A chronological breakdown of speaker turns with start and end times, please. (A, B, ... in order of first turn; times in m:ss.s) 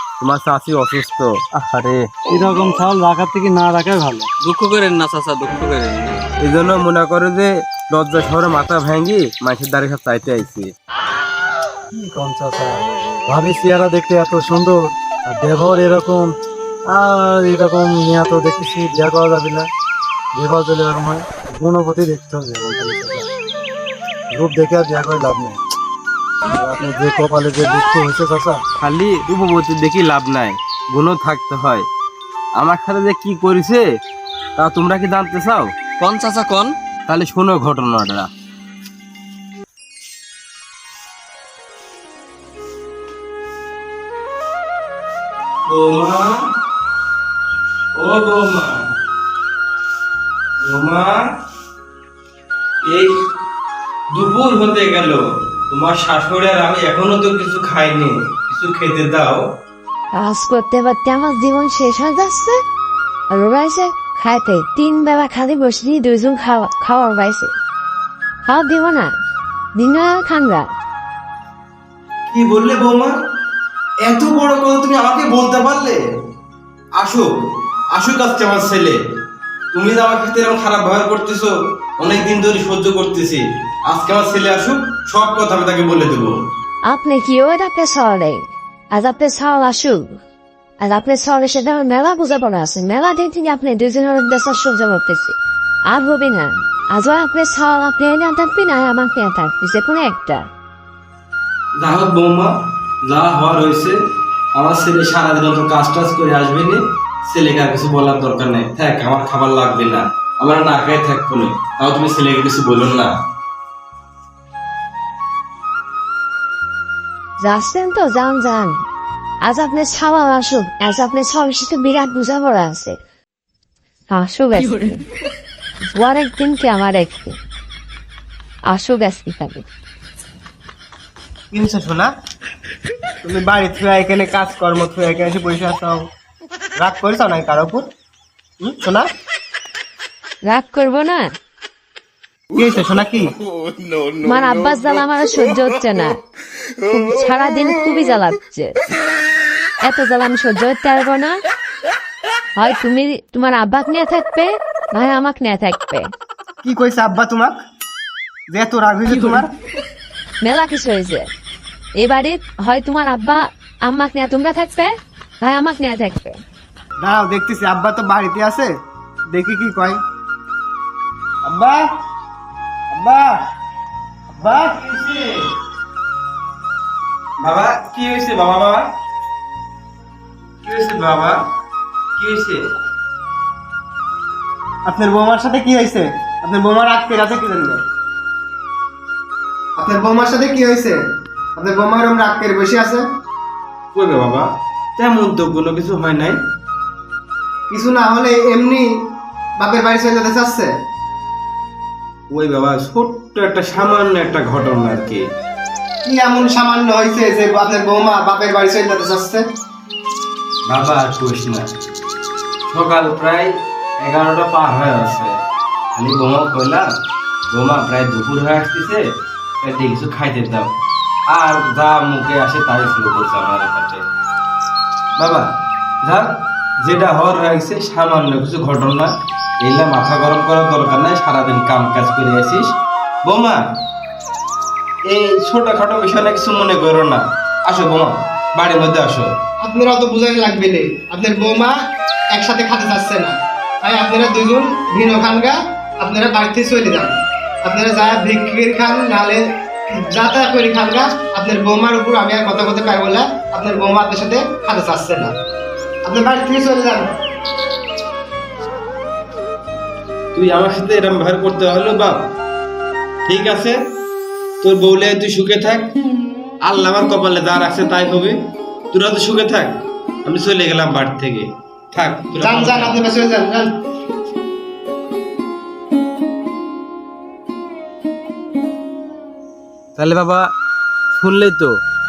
0:00.2-0:01.4 A
0:01.6-0:02.0 B
0:02.3-0:04.3 C
0:04.4-0:06.2 B
0:06.4-0:10.7 A
0:11.9-0:12.8 C
0:13.3-0:16.3 C
0:16.9-0:19.7 C
0:20.4-0:23.3 C
0:24.3-0:25.6 C
0:26.6-0:28.6 C
0:28.8-0:31.9 A
0:32.6-0:33.9 A
0:34.6-0:35.7 A
0:36.0-0:36.8 B
0:37.1-0:38.3 A
0:45.7-0:46.4 A
0:48.0-0:48.8 A
0:50.6-0:51.2 A
0:52.9-0:53.2 A
0:54.1-0:59.4 A
1:00.1-1:02.6 D
1:03.3-1:07.5 D
1:08.4-1:09.1 D
1:09.8-1:10.7 D
1:12.3-1:13.2 A
1:14.0-1:16.0 A
1:17.0-1:17.3 A
1:18.0-1:19.0 A
1:19.7-1:26.4 A
1:26.9-1:30.2 D
1:30.8-1:35.4 D
1:35.9-1:40.4 D
1:41.8-1:42.5 A
1:43.0-1:44.0 A
1:44.6-1:53.1 A
1:57.4-1:58.8 D
1:59.4-2:03.0 D
2:04.1-2:05.1 D
2:05.9-2:07.4 D
2:08.7-2:09.7 D
2:11.5-2:12.1 E
2:13.2-2:16.1 E
2:16.8-2:17.9 E
2:18.6-2:19.1 E
2:20.4-2:21.3 D
2:22.5-2:23.3 E
2:24.1-2:26.2 D
2:26.8-2:28.8 D
2:29.8-2:31.4 D
2:32.6-2:36.1 D
2:36.6-2:37.6 E
2:38.5-2:39.5 E
2:40.4-2:41.3 D
2:42.0-2:46.4 D
2:47.0-2:48.7 E
2:49.3-2:50.0 E
2:51.4-2:51.9 E
2:52.9-2:53.4 E
2:54.4-2:54.8 E
2:54.4-2:55.4 A
2:57.4-2:58.9 A
3:00.6-3:01.4 A
3:02.2-3:02.7 A
3:04.9-3:07.8 E
3:09.8-3:11.0 E
3:11.6-3:13.1 E
3:13.9-3:14.5 A
3:15.0-3:16.4 A
3:17.7-3:18.8 E
3:19.6-3:20.7 E
3:22.3-3:25.2 A
3:26.0-3:29.4 E
3:30.7-3:31.7 A
3:32.7-3:35.4 A
3:36.0-3:36.9 A
3:37.5-3:39.0 A
3:39.6-3:40.7 A
3:41.3-3:44.0 A
3:45.2-3:45.5 A
3:46.8-3:52.7 A
3:53.2-3:53.6 A
3:55.0-3:59.3 A
3:59.6-4:01.8 E
4:02.3-4:07.1 E
4:07.6-4:15.3 E
4:16.0-4:17.1 E
4:20.4-4:22.2 A
4:23.3-4:23.8 A
4:24.6-4:25.9 A
4:26.6-4:28.4 A
4:28.9-4:33.0 A
4:32.4-4:33.7 E
4:40.0-4:40.5 A
4:41.2-4:41.7 A